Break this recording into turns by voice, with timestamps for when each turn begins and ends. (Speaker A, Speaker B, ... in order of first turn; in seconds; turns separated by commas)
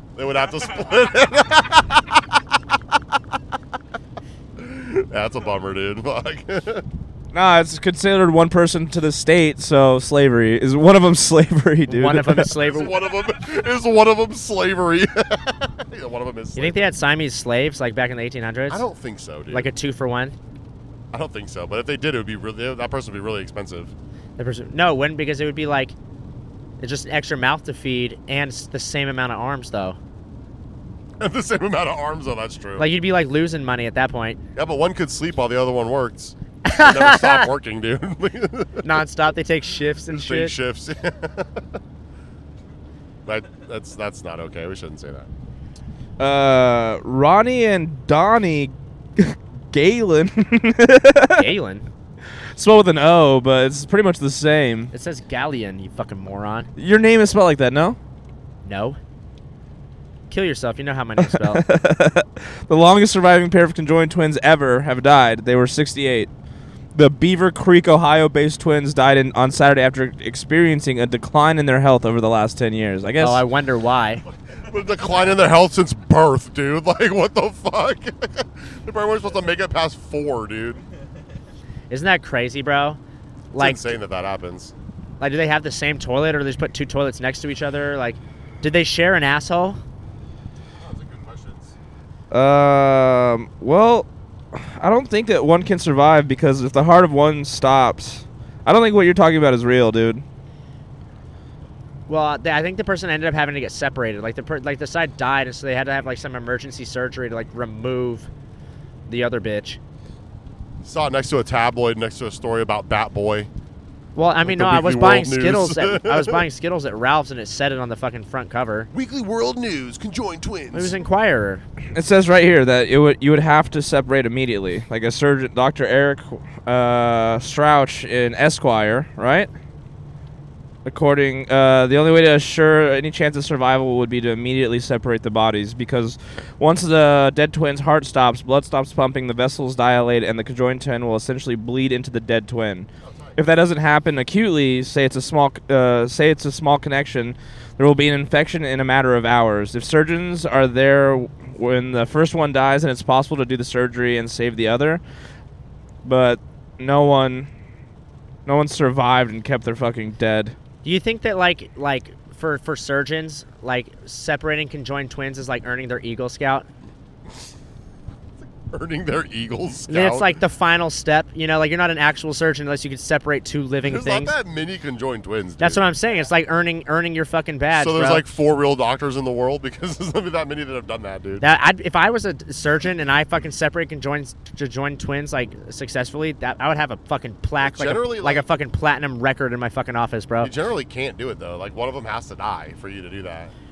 Speaker A: 0.1-2.4, Speaker A: 4.6-6.8, Speaker B: 7.3-12.5, Speaker C: 11.9-12.9, Speaker A: 12.6-16.9, Speaker C: 16.6-18.8, Speaker A: 18.7-19.7, Speaker C: 19.5-20.3, Speaker A: 21.1-23.9, Speaker C: 24.4-25.9, Speaker C: 26.8-30.0, Speaker A: 31.2-32.9, Speaker C: 32.8-34.4, Speaker A: 34.5-39.0, Speaker C: 36.6-37.5, Speaker C: 38.8-40.5, Speaker A: 40.1-41.8, Speaker A: 43.2-45.3, Speaker B: 46.2-51.5, Speaker C: 51.3-51.8, Speaker B: 52.5-54.9, Speaker C: 54.9-56.7, Speaker B: 56.8-58.0, Speaker C: 58.6-59.0, Speaker C: 60.3-61.6, Speaker B: 61.2-66.3, Speaker B: 66.9-73.4, Speaker C: 73.2-74.2, Speaker A: 74.6-80.8, Speaker C: 81.9-83.0, Speaker C: 83.5-84.0, Speaker A: 83.5-84.7, Speaker C: 85.2-89.8, Speaker A: 90.7-91.7, Speaker B: 92.3-100.2, Speaker C: 102.1-108.3, Speaker C: 109.1-109.8, Speaker A: 110.8-113.5, Speaker C: 114.1-118.9, Speaker A: 114.4-116.5, Speaker A: 118.9-121.0, Speaker C: 120.7-121.6, Speaker B: 121.9-129.5, Speaker B: 130.8-155.0, Speaker A: 143.0-143.4, Speaker B: 156.0-157.5, Speaker B: 158.4-160.5, Speaker C: 160.8-166.7, Speaker A: 168.4-170.4, Speaker C: 169.9-174.3, Speaker A: 173.8-175.8, Speaker C: 175.6-178.2, Speaker A: 177.7-181.4, Speaker C: 181.4-190.5, Speaker A: 187.6-188.5, Speaker A: 190.4-193.5